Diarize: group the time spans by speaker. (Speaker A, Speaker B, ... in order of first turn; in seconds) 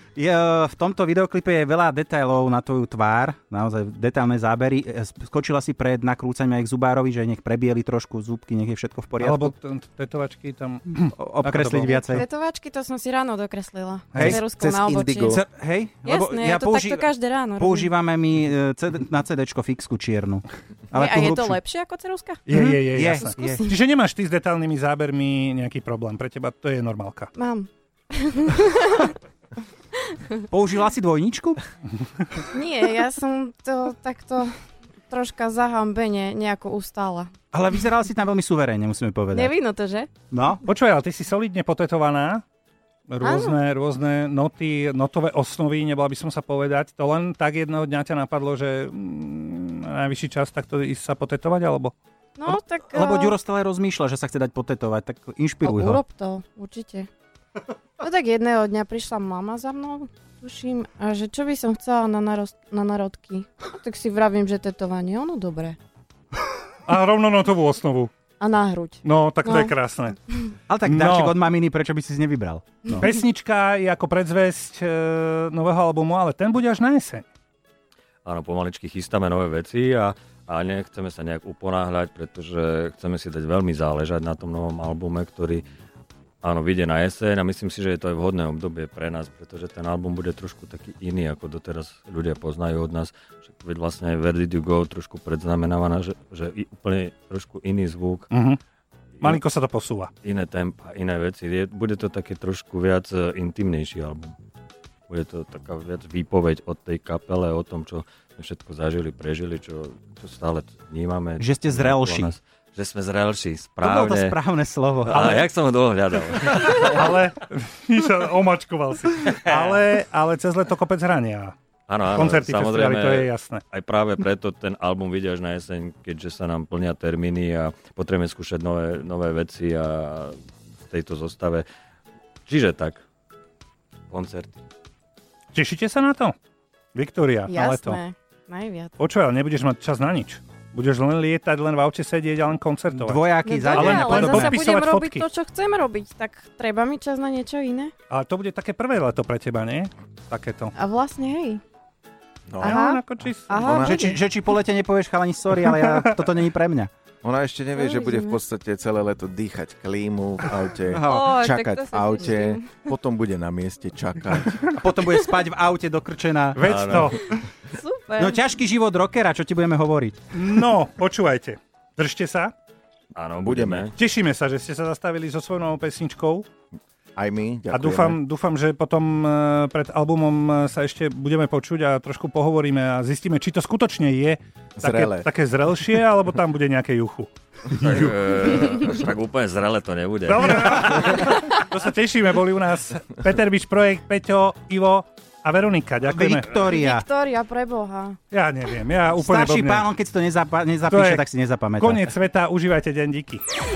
Speaker A: 0.1-9.5, 10.9-12.2, 14.1-14.4, 15.3-21.6, 22.5-23.6, 30.5-31.6, 37.5-39.6, 40.3-40.6, 52.5-56.0, 70.7-73.1, 111.4-112.3, 113.8-115.5, 142.9-144.6, 153.6-156.9, 160.9-161.3, 164.8-166.6, 168.2-170.2, 196.0-197.1, 199.2-202.1
Speaker B: 9.2-12.2, 14.1-14.4, 22.4-27.3, 40.6-42.4, 43.1-51.9, 66.8-68.1, 69.0-70.2, 70.8-71.3, 73.0-77.2, 98.3-98.6, 99.2-100.1, 116.8-121.5, 122.1-123.6, 135.5-136.3, 136.9-138.0, 139.0-145.2, 148.1-150.7, 152.6-153.6, 155.6-156.1, 166.6-167.2, 170.3-172.5, 173.9-176.5, 177.7-187.3, 190.2-196.5, 198.3-199.9, 200.9-201.2, 201.8-203.4
Speaker C: 11.9-15.4, 16.0-17.9, 20.9-23.8, 27.4-29.1, 29.9-30.4, 32.5-34.5, 35.1-37.3, 39.3-40.1, 43.2-43.6, 52.4-53.3, 55.6-57.1, 58.0-65.8, 68.4-69.7, 137.5-138.9, 143.4-147.9, 150.8-151.6, 152.6-154.2, 157.8-158.4, 161.1-162.9, 167.3-168.4, 196.6-198.2
Speaker D: 14.3-15.4, 152.5-152.8, 153.6-154.0, 157.2-164.7, 173.4-173.9, 177.2-178.2, 184.8-185.3
Speaker E: 78.2-85.6, 86.4-98.3, 100.2-104.4, 105.1-114.4, 115.0-117.2, 119.4-119.8, 121.9-131.7, 132.4-133.0, 134.1-134.6, 166.6-167.2, 173.1-173.9, 187.7-191.3